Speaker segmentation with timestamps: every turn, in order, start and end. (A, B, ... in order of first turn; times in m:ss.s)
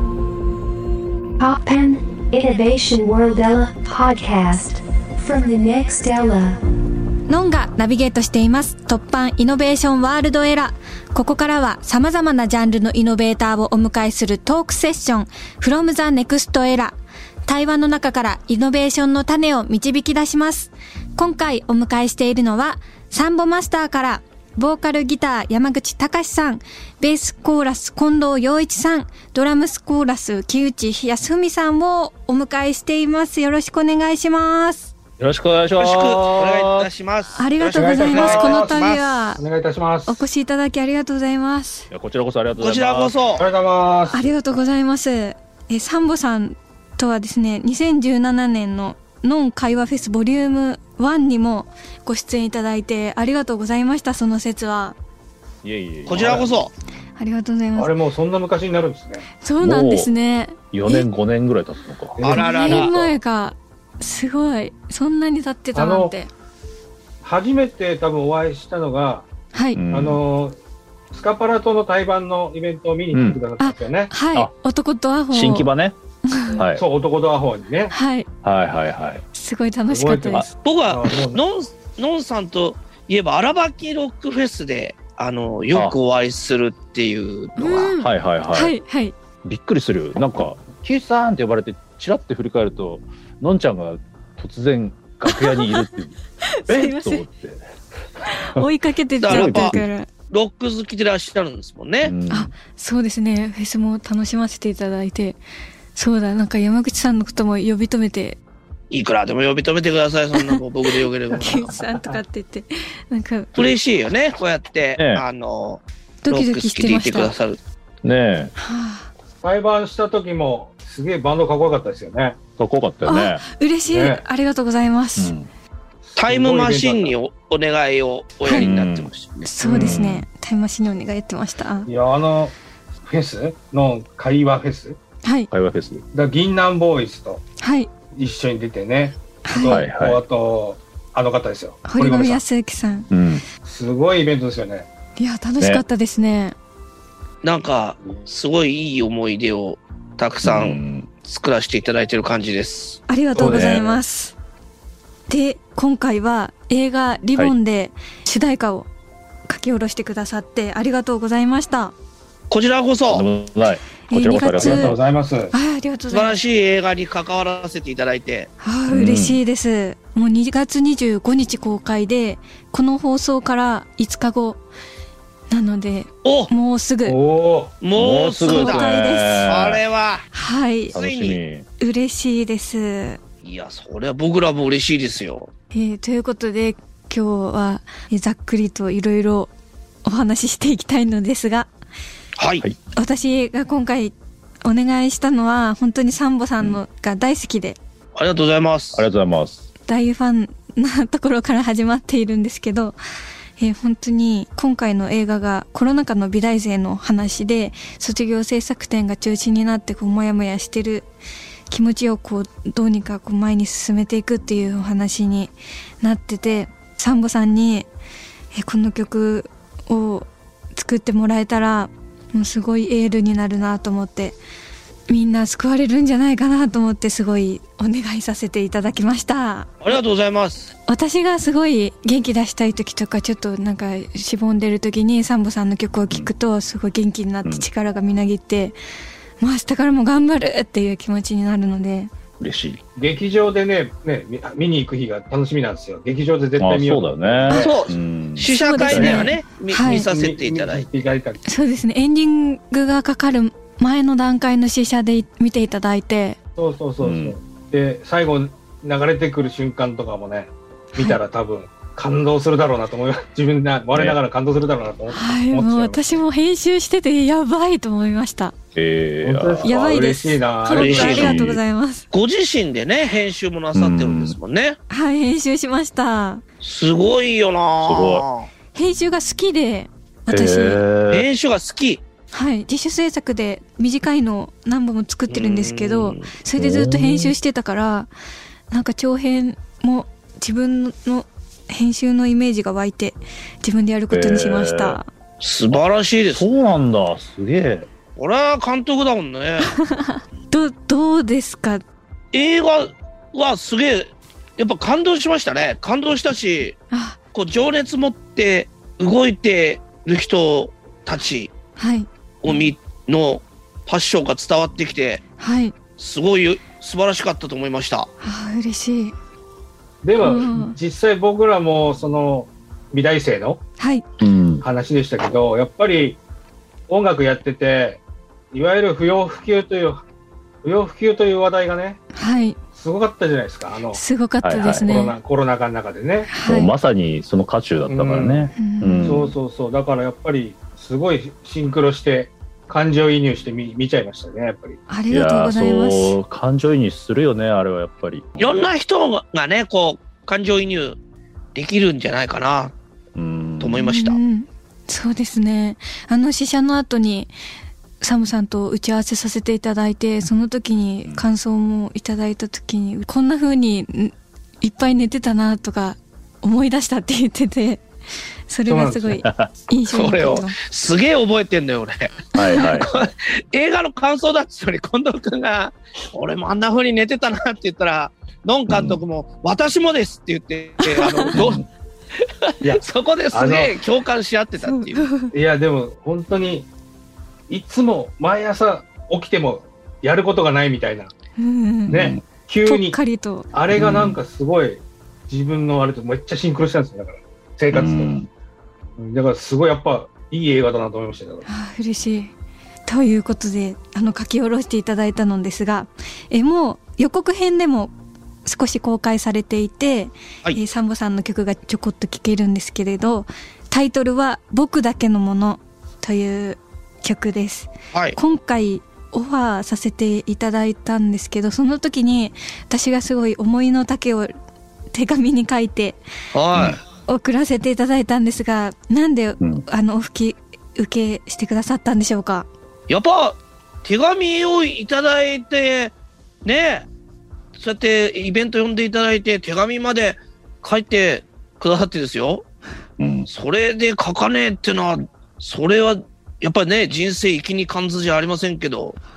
0:01.4-0:06.6 A
0:07.3-0:34.9 B
0:35.2-0:36.9 C
0:35.8-0:39.1 D
0:37.4-0:39.4 B
0:37.7-0:40.2 E
0:40.1-0:41.9 B
0:41.9-0:43.2 C
0:42.6-0:43.4 D
0:43.4-0:44.3 E
0:44.1-0:55.0 B
0:55.6-0:56.6 C
0:56.1-0:56.7 D
0:57.2-0:57.9 B
0:57.8-0:59.2 E
0:59.4-1:01.1 B
0:59.6-1:00.1 C
1:00.7-1:02.2 C
1:02.2-1:03.0 E
1:02.2-1:02.9 D
1:02.3-1:06.3 B
1:05.7-1:06.1 E
1:07.2-1:09.2 E
1:09.5-1:09.8 B
1:09.7-1:10.2 C
1:09.9-1:10.6 E
1:11.1-1:14.1 E
1:13.1-1:13.4 C
1:13.6-1:15.7 B
1:15.3-1:16.0 C
1:16.3-1:16.6 B
1:16.5-1:16.8 C
1:16.6-1:17.9 E
1:17.9-1:18.3 B
1:18.4-1:19.2 C
1:19.3-1:20.5 B
1:19.9-1:21.4 E
1:20.6-1:27.9 D
1:27.6-1:29.2 B
1:28.0-1:28.7 C
1:29.4-1:37.6 C
1:35.2-1:35.9 B
1:36.4-1:37.2 B
1:38.3-1:40.1 B
1:39.2-1:39.7 D
1:39.3-1:39.9 C
1:40.3-1:42.1 D
1:42.0-1:42.5 C
1:42.3-1:45.4 B
1:45.9-1:48.4 B
1:48.9-1:51.7 D
1:50.4-1:53.8 B
1:51.4-1:52.2 E
1:53.6-1:57.6 D
1:55.0-1:55.2 C
1:56.2-1:57.3 B
1:58.0-1:58.5 C
1:58.6-1:59.1 B
1:59.4-2:02.4 E
2:02.6-2:03.4 C
2:03.0-2:05.3 B
2:03.8-2:04.2 E
2:05.2-2:05.5 C
2:06.1-2:07.1 E
2:06.2-2:09.5 D
2:08.5-2:09.1 C
2:09.4-2:11.9 B
2:09.6-2:10.0 E
2:09.6-2:10.2 C
2:11.9-2:15.0 E
2:15.2-2:15.5 B
2:15.5-2:16.0 C
2:16.1-2:17.4 E
2:17.6-2:17.9 B
2:18.1-2:22.4 E
2:19.4-2:19.8 B
2:19.6-2:20.2 C
2:21.8-2:23.1 B
2:23.1-2:23.4 C
2:23.6-2:24.9 E
2:25.2-2:26.5 B
2:27.4-2:33.0 D
2:30.4-2:31.1 C
2:33.1-2:34.3 B
2:33.4-2:34.0 E
2:33.4-2:33.9 C
2:35.3-2:38.9 B
2:39.5-2:41.9 B
2:42.5-2:43.2 D
2:43.1-2:45.0 C
2:44.1-2:44.9 B
2:44.5-2:45.5 E
2:45.5-2:46.4 B
2:46.1-2:48.5 D
2:48.6-2:54.6 B
2:48.9-2:49.4 C
2:55.5-2:57.2 B
2:56.2-2:56.5 D
2:57.0-2:57.7 E
2:57.8-3:00.2 D
2:57.9-2:59.8 C
2:58.4-2:59.4 B
3:00.3-3:01.0 B
3:00.9-3:01.7 C
3:00.9-3:01.4 D
3:01.8-3:03.2 B
3:03.4-3:05.5 D
3:05.7-3:09.5 B
3:10.0-3:11.7 B
3:12.4-3:12.6 D
3:13.0-3:17.8 B
3:18.1-3:19.0 D
3:18.9-3:19.7 C
3:19.9-3:23.0 B
3:23.6-3:31.1 B
3:31.7-3:37.9 B
3:38.5-3:44.4 B
3:45.1-3:50.0 B
3:49.8-3:50.7 D
3:50.9-3:58.8 B
3:59.4-4:02.1 B
4:02.4-4:02.8 C
4:03.0-4:07.8 E
4:06.6-4:09.3 C
4:07.5-4:10.9 D
4:08.4-4:10.1 B
4:10.0-4:11.4 E
4:11.4-4:16.4 B
4:16.6-4:26.2 E
4:17.0-4:17.4 C
4:23.9-4:24.2 C
4:25.1-4:28.5 B
4:28.7-4:29.7 C
4:29.2-4:31.4 E
4:29.6-4:32.0 B
4:30.7-4:31.4 D
4:31.0-4:31.6 C
4:32.1-4:34.8 D
4:33.7-4:34.4 C
4:34.9-4:36.4 B
4:36.6-4:38.5 D
4:37.8-4:38.2 C
4:38.7-4:40.8 B
4:40.3-4:41.3 C
4:41.1-4:42.0 D
4:42.3-4:48.1 B
4:45.3-4:46.3 D
4:46.6-4:47.4 C
4:48.7-4:55.1 B
4:54.1-4:55.0 C
4:55.4-4:56.4 D
4:56.3-4:57.9 C
4:58.2-4:59.7 D
4:59.7-5:01.8 B
5:02.3-5:06.8 D
5:06.9-5:07.2 B
5:07.3-5:11.5 D
5:11.8-5:12.1 B
5:12.4-5:15.2 D
5:15.4-5:15.7 B
5:16.0-5:18.1 D
5:18.2-5:19.1 B
5:20.0-5:23.6 E
5:20.2-5:20.8 B
5:23.8-5:24.0 B
5:24.2-5:24.6 C
5:24.6-5:26.2 E
5:26.9-5:28.0 E
5:28.5-5:30.0 E
5:30.6-5:32.0 E
5:32.1-5:32.6 B
5:32.7-5:34.0 E
5:33.9-5:35.2 B
5:34.4-5:34.9 C
5:34.8-5:36.3 E
5:36.3-5:36.7 B
5:36.4-5:39.3 C
5:37.9-5:38.5 E
5:38.6-5:39.2 B
5:39.0-5:44.8 E
5:44.9-5:46.2 B
5:45.1-5:48.7 C
5:48.4-5:51.0 D
5:51.5-5:52.7 D
5:53.2-5:53.9 C
5:53.6-5:54.2 D
5:53.8-5:57.3 B
5:58.0-6:07.8 B
6:08.5-6:10.5 B
6:08.7-6:09.2 E
6:09.8-6:21.6 D
6:12.3-6:12.9 C
6:18.7-6:19.0 C
6:20.8-6:21.3 B
6:21.3-6:21.6 C
6:22.4-6:25.1 D
6:22.6-6:23.7 E
6:24.6-6:25.3 B
6:25.3-6:26.7 E
6:27.5-6:31.1 E
6:31.4-6:32.0 B
6:31.9-6:32.2 C
6:31.9-6:33.0 E
6:32.6-6:33.5 B
6:33.5-6:38.1 E
6:33.7-6:34.2 C
6:37.7-6:38.3 C
6:39.0-6:41.4 E
6:41.4-6:42.3 B
6:42.8-6:47.9 B
6:48.4-7:04.3 B
7:04.9-7:06.0 B
7:06.3-7:06.8 D
7:06.5-7:06.8 C
7:07.1-7:12.5 B
7:12.9-7:16.8 D
7:17.6-7:22.4 D
7:23.0-7:23.3 C
7:23.3-7:29.0 D